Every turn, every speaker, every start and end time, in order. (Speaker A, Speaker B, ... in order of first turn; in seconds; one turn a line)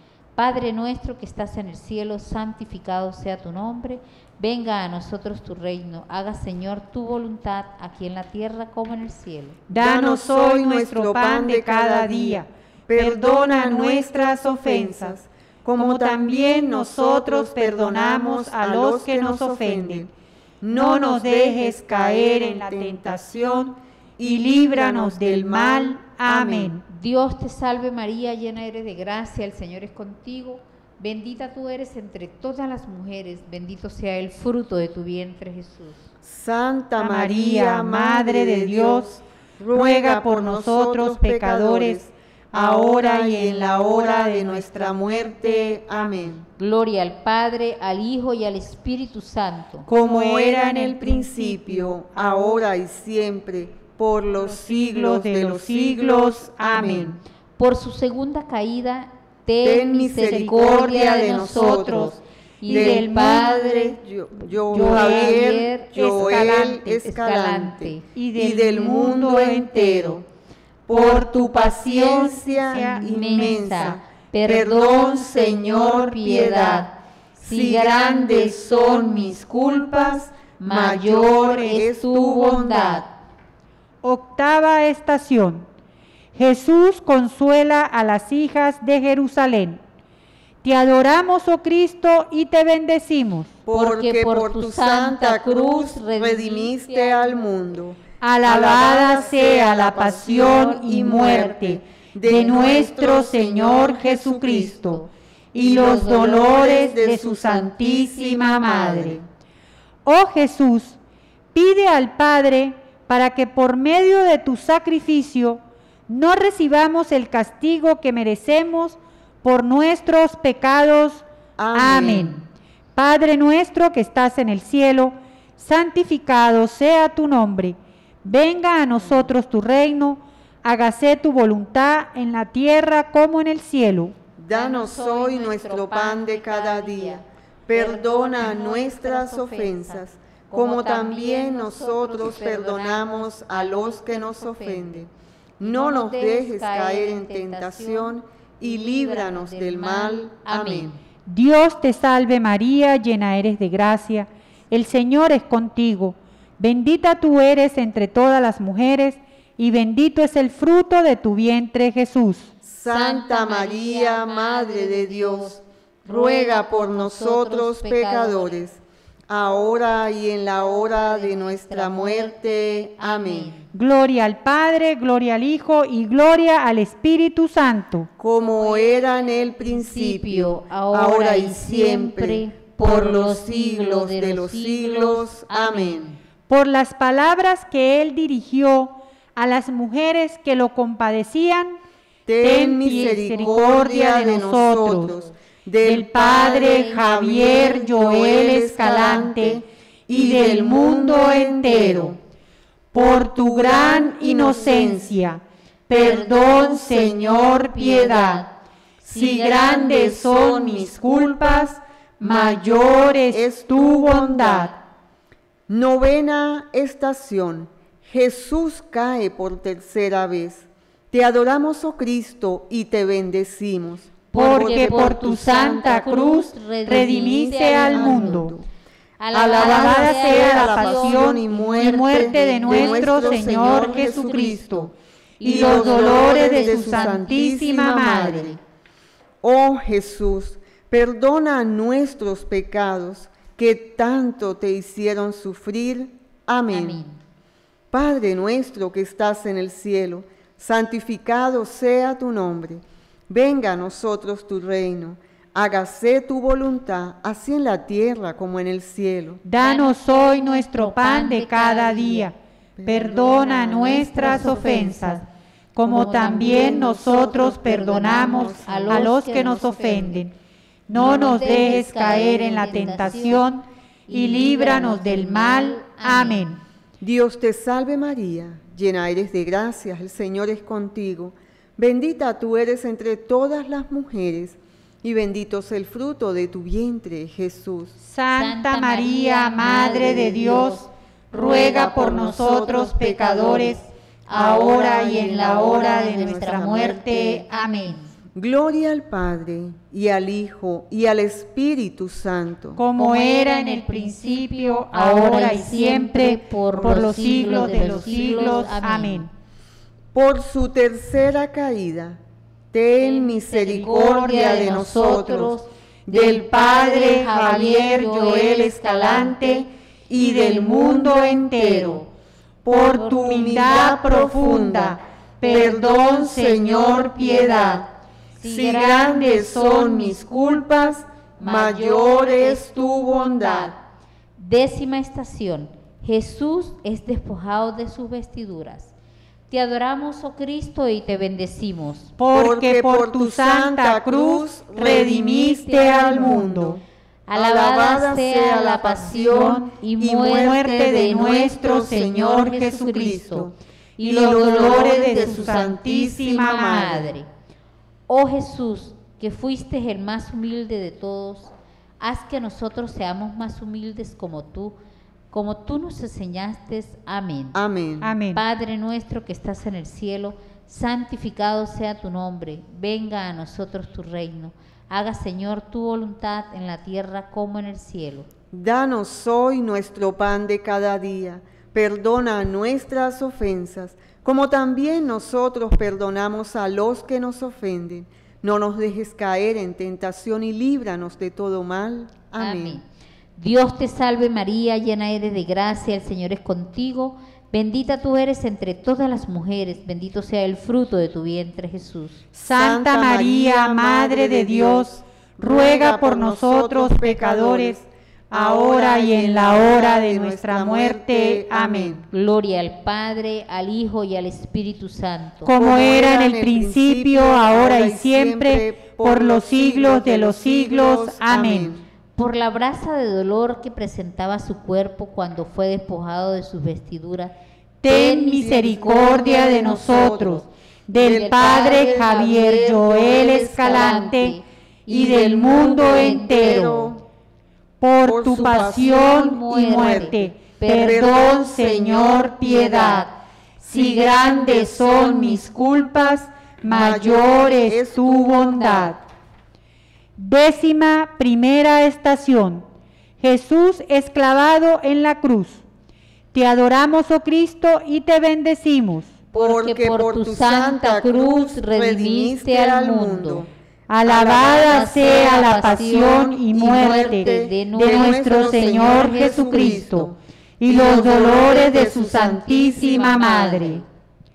Speaker A: 0.4-9.6
Speaker B: 9.7-15.2
Speaker C: 9.7-20.1
Speaker B: 15.8-20.1
Speaker C: 20.6-23.3
Speaker B: 20.6-26.8
Speaker C: 24.2-26.8
Speaker A: 26.9-36.1
Speaker C: 36.2-46.5
Speaker B: 37.0-39.1
Speaker B: 39.7-42.0
Speaker B: 42.5-44.9
Speaker A: 46.6-49.9
Speaker B: 49.9-52.1
Speaker C: 49.9-57.2
Speaker B: 54.4-57.2
Speaker A: 57.6-64.0
Speaker C: 59.6-62.2
Speaker B: 61.0-63.6
Speaker C: 62.7-70.2
Speaker A: 64.6-68.0
Speaker B: 64.7-66.8
Speaker B: 68.1-70.2
Speaker C: 70.9-83.0
Speaker B: 70.9-74.0
Speaker A: 72.7-78.3
Speaker A: 80.6-83.1
Speaker B: 84.0-85.7
Speaker B: 86.4-89.8
Speaker B: 90.6-93.5
Speaker C: 93.7-104.9
Speaker A: 93.7-97.6
Speaker B: 98.2-105.0
Speaker B: 105.5-109.2
Speaker C: 105.6-109.3
Speaker B: 110.0-111.0
Speaker B: 111.5-122.4
Speaker C: 121.6-122.4
Speaker B: 123.0-134.1
Speaker C: 134.4-151.0
Speaker A: 134.5-145.1
Speaker A: 145.6-151.0
Speaker B: 151.3-162.5
Speaker C: 162.6-173.5
Speaker A: 162.8-168.6
Speaker A: 170.7-172.3
Speaker A: 173.0-173.7
Speaker B: 173.7-178.1
Speaker C: 178.2-186.1
Speaker A: 178.4-186.2
Speaker B: 186.5-191.8
Speaker C: 192.3-202.2
Speaker B: 192.4-195.2
Speaker B: 195.8-202.2
Speaker A: 196.5-196.9
Speaker B: 202.9-208.4
Speaker C: 202.9-205.2
Speaker C: 205.9-207.9
Speaker A: 207.8-208.5
Speaker C: 209.0-211.7
Speaker B: 209.1-214.7
Speaker C: 212.2-214.7
Speaker C: 215.7-225.2
Speaker A: 224.3-228.5
Speaker B: 224.3-228.5
Speaker C: 227.5-228.7
Speaker A: 229.2-234.6
Speaker C: 229.3-238.6
Speaker B: 229.4-234.9
Speaker A: 235.4-237.3
Speaker B: 235.4-238.6
Speaker C: 239.4-247.0
Speaker A: 246.7-247.2
Speaker C: 247.9-259.4
Speaker B: 259.4-265.2
Speaker A: 259.6-262.3
Speaker C: 262.8-263.8
Speaker A: 263.1-265.3
Speaker B: 265.8-270.3
Speaker A: 265.8-270.3
Speaker C: 266.2-269.1
Speaker B: 270.9-276.6
Speaker A: 270.9-273.5
Speaker C: 271.0-271.9
Speaker C: 272.6-273.1
Speaker A: 274.1-276.6
Speaker C: 277.0-288.0
Speaker B: 288.0-297.9
Speaker A: 288.3-290.9
Speaker C: 289.7-290.8
Speaker C: 291.3-293.8
Speaker A: 294.3-298.1
Speaker C: 295.1-297.0
Speaker C: 298.4-302.8
Speaker B: 302.8-309.3
Speaker A: 302.9-309.3
Speaker C: 306.8-308.7
Speaker C: 310.1-312.2
Speaker C: 312.7-315.6
Speaker A: 313.0-315.7
Speaker C: 316.1-322.1
Speaker B: 316.1-322.1
Speaker A: 316.9-319.3
Speaker C: 322.6-327.9
Speaker B: 322.6-327.9
Speaker A: 328.4-329.1
Speaker C: 328.4-333.8
Speaker B: 328.5-330.2
Speaker A: 331.4-332.7
Speaker A: 333.4-333.7
Speaker A: 334.4-338.9
Speaker A: 339.5-342.1
Speaker B: 342.2-346.8
Speaker C: 342.3-346.8
Speaker A: 347.3-350.9
Speaker C: 347.3-357.1
Speaker B: 350.3-353.2
Speaker A: 352.3-355.7
Speaker B: 354.1-356.9
Speaker A: 356.5-357.3
Speaker A: 358.1-364.8
Speaker A: 365.3-367.6
Speaker C: 367.5-368.1
Speaker B: 368.0-368.4
Speaker A: 368.3-378.3
Speaker C: 378.5-392.8
Speaker A: 392.4-392.8
Speaker A: 393.4-402.3
Speaker B: 402.3-407.8
Speaker C: 402.5-412.1
Speaker B: 408.3-412.0
Speaker A: 412.1-415.5
Speaker B: 415.4-421.7
Speaker C: 415.6-421.9
Speaker A: 422.2-427.4
Speaker B: 427.8-436.9
Speaker A: 427.9-429.9
Speaker C: 428.4-433.6
Speaker A: 431.0-434.4
Speaker C: 434.9-437.0
Speaker A: 435.6-436.9
Speaker B: 437.8-449.0
Speaker C: 438.1-443.0
Speaker A: 439.0-441.1
Speaker A: 442.6-443.0
Speaker C: 443.6-445.4
Speaker C: 446.6-448.9
Speaker B: 450.2-452.6
Speaker B: 453.2-455.6
Speaker B: 456.3-459.1
Speaker A: 459.3-463.5
Speaker C: 459.3-463.5
Speaker B: 463.9-467.3
Speaker C: 464.1-473.0
Speaker A: 464.5-469.6
Speaker B: 467.8-473.8
Speaker A: 472.8-473.9